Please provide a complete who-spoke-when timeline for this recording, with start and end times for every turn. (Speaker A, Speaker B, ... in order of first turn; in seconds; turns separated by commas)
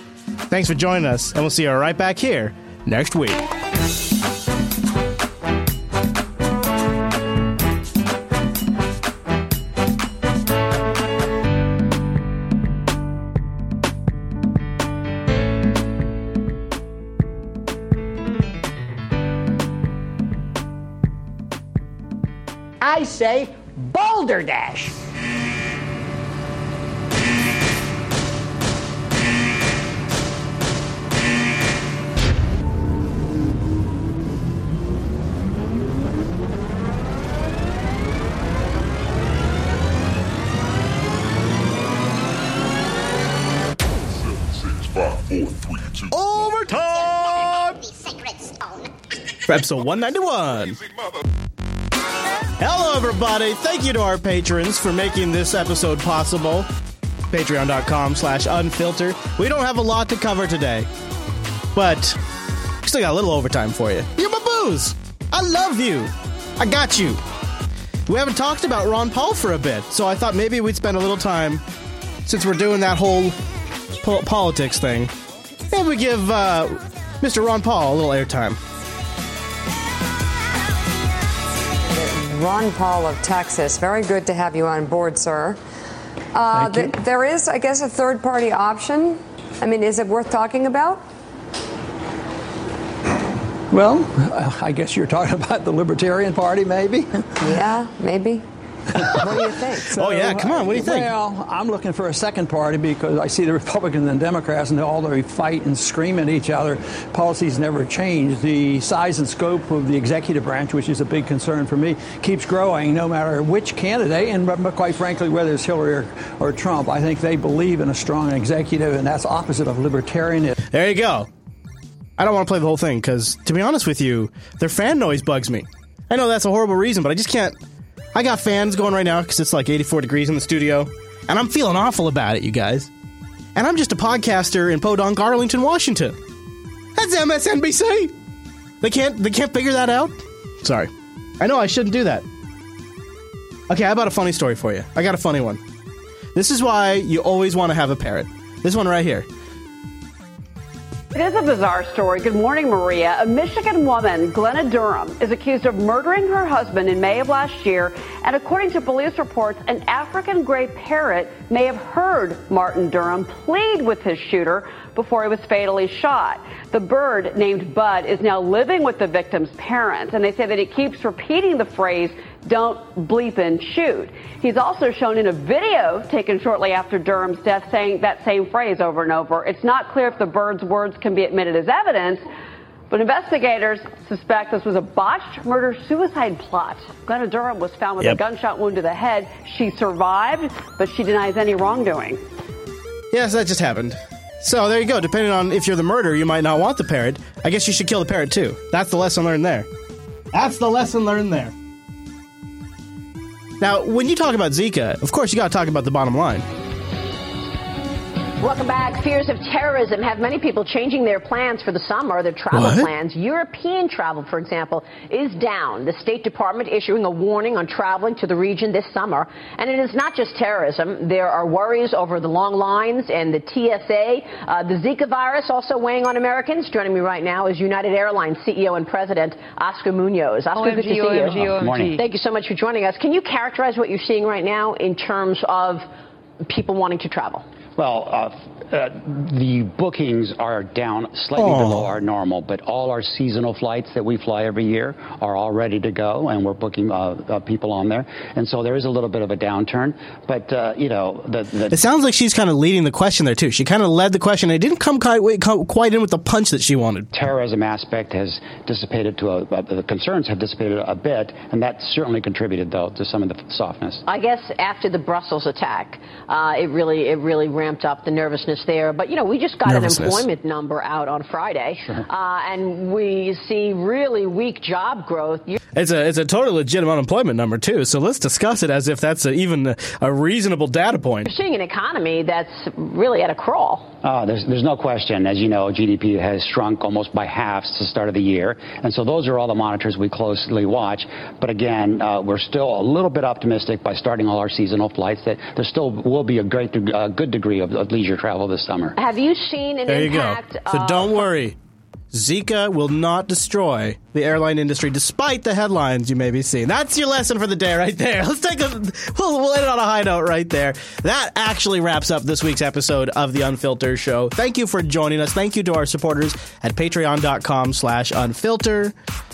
Speaker A: 0.5-3.4, Speaker B: 22.8-24.9, Speaker A: 46.1-47.8, Speaker A: 49.5-50.8, Speaker A: 52.6-56.7, Speaker A: 57.3-60.9, Speaker A: 61.7-62.2, Speaker A: 62.8-67.2, Speaker A: 68.1-71.6, Speaker A: 72.2-73.4, Speaker A: 73.9-75.1, Speaker A: 75.7-78.6, Speaker C: 81.9-85.6, Speaker C: 86.3-91.0, Speaker D: 86.5-86.9, Speaker D: 93.7-97.2, Speaker C: 97.4-98.4, Speaker A: 99.1-99.4, Speaker C: 99.2-99.9, Speaker D: 99.9-120.5, Speaker A: 99.9-101.1, Speaker A: 120.7-121.3, Speaker A: 122.2-127.6, Speaker A: 128.1-132.9, Speaker A: 133.6-136.2, Speaker A: 136.9-138.1, Speaker A: 138.8-142.2, Speaker A: 143.7-145.6, Speaker A: 146.3-149.2, Speaker E: 151.1-182.2, Speaker E: 182.9-192.2, Speaker A: 193.1-199.7, Speaker A: 200.3-201.5, Speaker A: 203.6-206.4, Speaker F: 208.4-235.9, Speaker A: 212.5-212.9, Speaker G: 231.3-232.0, Speaker F: 236.5-237.4, Speaker G: 237.8-251.8, Speaker A: 241.4-241.9, Speaker A: 251.7-257.1, Speaker G: 257.1-264.0, Speaker F: 264.1-275.6, Speaker A: 269.6-270.2, Speaker A: 275.8-281.3, Speaker F: 281.2-283.9, Speaker G: 284.0-298.9, Speaker F: 299.0-301.3, Speaker A: 299.9-301.6, Speaker A: 302.1-318.9